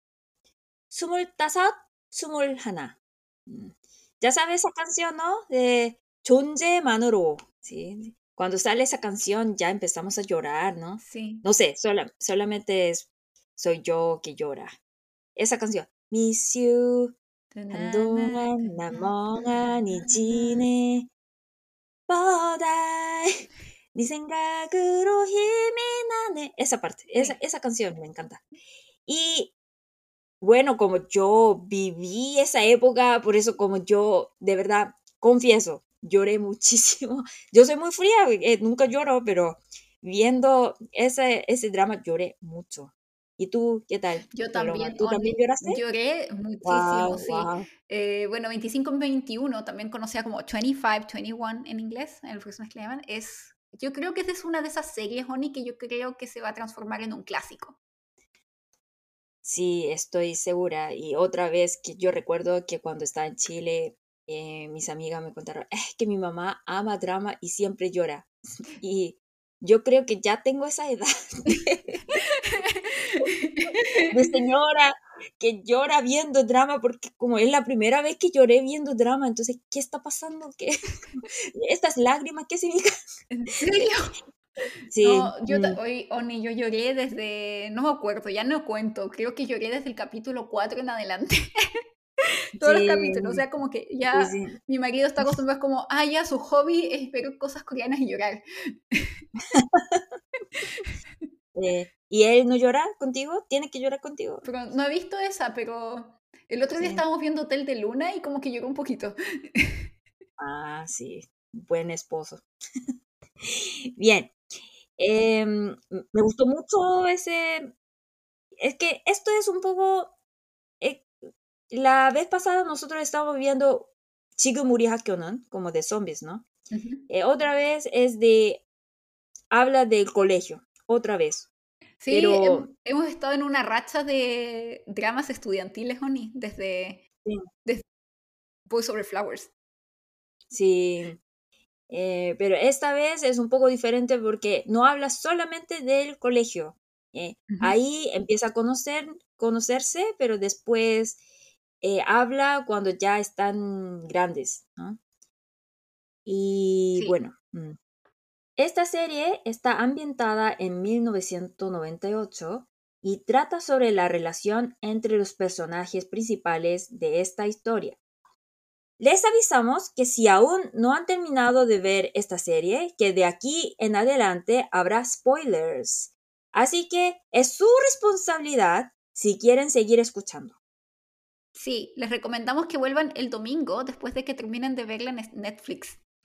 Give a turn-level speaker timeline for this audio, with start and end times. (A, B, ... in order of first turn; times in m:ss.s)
0:00.9-0:14.8 A
0:11.0-0:11.5 B
0:15.4-0:17.2 A
0:17.6-0:19.1 B
0:17.7-0:21.1 A
0:20.0-0:20.6 B
0:22.1-0:23.4 A
0:23.9-0:28.4 A
0:29.1-0:29.5 A
0:30.4-0:45.8 A
0:44.3-0:57.8 B
0:46.6-0:47.7 A
0:59.4-1:12.6 A
1:12.1-1:14.2 B
1:14.1-1:22.9 A
1:23.3-1:24.2 B
1:24.9-1:25.8 A
1:25.0-1:31.5 B
1:32.2-1:38.4 B
1:32.6-1:33.4 A
1:34.1-1:34.6 A
1:38.9-1:39.2 B
1:39.5-1:40.0 A
1:40.6-1:40.9 B
1:41.6-1:44.4 A
1:44.4-1:49.9 B
1:50.4-1:52.4 A
1:53.4-1:54.3 A
1:55.0-1:57.7 A
1:58.6-2:00.1 A
2:00.8-2:01.1 A
2:01.7-2:06.4 A
2:06.7-2:07.0 B
2:07.1-2:08.6 A
2:09.5-2:11.5 A
2:12.0-2:17.0 B
2:12.1-2:12.7 A
2:18.7-2:19.5 B
2:20.5-2:21.2 A
2:21.9-2:31.2 A
2:27.5-2:27.8 B
2:31.8-2:35.0 A
2:36.3-2:37.8 A
2:38.6-2:48.0 A
2:49.0-3:00.6 A
3:01.6-3:06.0 B